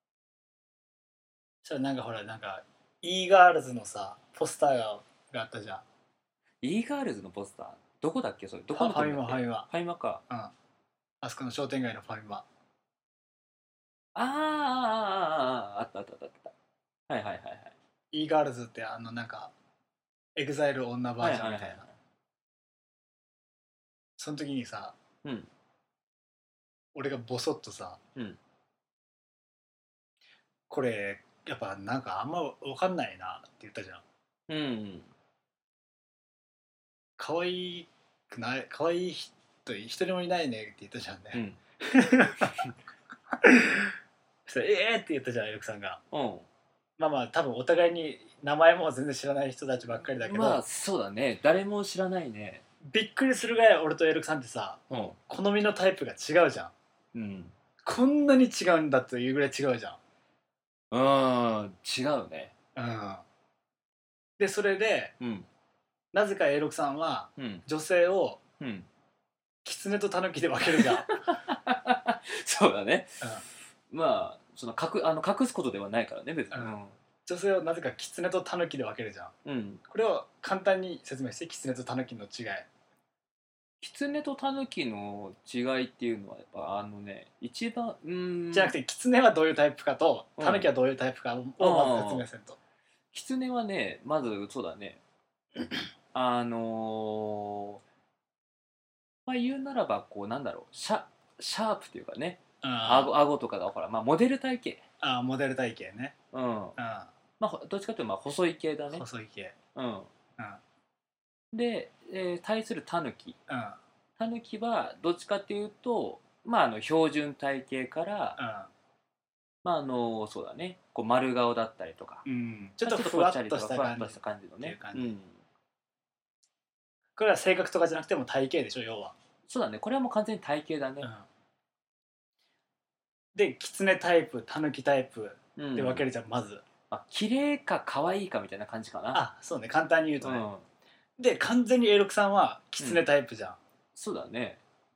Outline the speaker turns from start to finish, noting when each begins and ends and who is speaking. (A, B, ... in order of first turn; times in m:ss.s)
0:01.6-0:05.8 A
0:06.6-0:10.2 B
0:08.7-0:09.7 A
0:11.2-0:12.4 A
0:14.2-0:16.5 B
0:17.1-0:17.8 B
0:18.1-0:19.5 A
0:20.4-0:21.8 A
0:21.2-0:21.9 B
0:24.2-0:25.0 A
0:25.2-0:25.5 B
0:26.9-0:28.0 A
0:30.7-0:34.0 A
0:34.5-0:35.1 B
0:37.2-0:42.6 A
0:41.3-0:41.6 B
0:43.3-0:44.0 A
0:44.5-0:46.0 A
0:46.1-0:46.5 B
0:47.0-0:50.6 A
0:50.2-0:52.6 B
0:52.8-0:56.7 A
0:54.9-0:55.2 B
0:57.1-0:57.5 B
0:57.8-1:00.0 A
1:00.9-1:02.5 B
1:02.8-1:03.2 A
1:04.4-1:05.1 A
1:05.2-1:05.5 B
1:06.1-1:08.4 A
1:07.4-1:07.6 B
1:08.6-1:08.9 B
1:09.6-1:11.1 A
1:10.7-1:13.3 B
1:13.9-1:17.0 B
1:17.3-1:19.3 A
1:19.4-1:19.8 B
1:19.9-1:22.7 A
1:23.8-1:28.8 B
1:28.5-1:32.6 A
1:30.4-1:30.7 B
1:31.6-1:32.3 B
1:33.1-1:35.0 B
1:36.1-1:37.8 B
1:39.3-1:44.8 B
1:42.6-1:43.2 A
1:45.0-1:46.2 A
1:46.3-1:46.8 B
1:46.8-1:47.1 A
1:47.4-1:49.0 B
1:48.9-1:49.6 A
1:49.8-1:50.1 B
1:51.5-1:53.4 B
1:53.5-1:53.8 A
1:54.2-1:58.4 B
1:58.4-1:58.7 A
1:59.6-2:02.3 B
2:02.3-2:05.2 A
2:02.8-2:05.4 B
2:07.2-2:09.2 A
2:09.5-2:11.1 B
2:13.4-2:16.6 A
2:15.6-2:16.0 B
2:16.9-2:19.2 B
2:19.1-2:20.4 A
2:20.2-2:20.6 B
2:21.2-2:23.6 A
2:22.8-2:23.0 B
2:24.0-2:24.6 B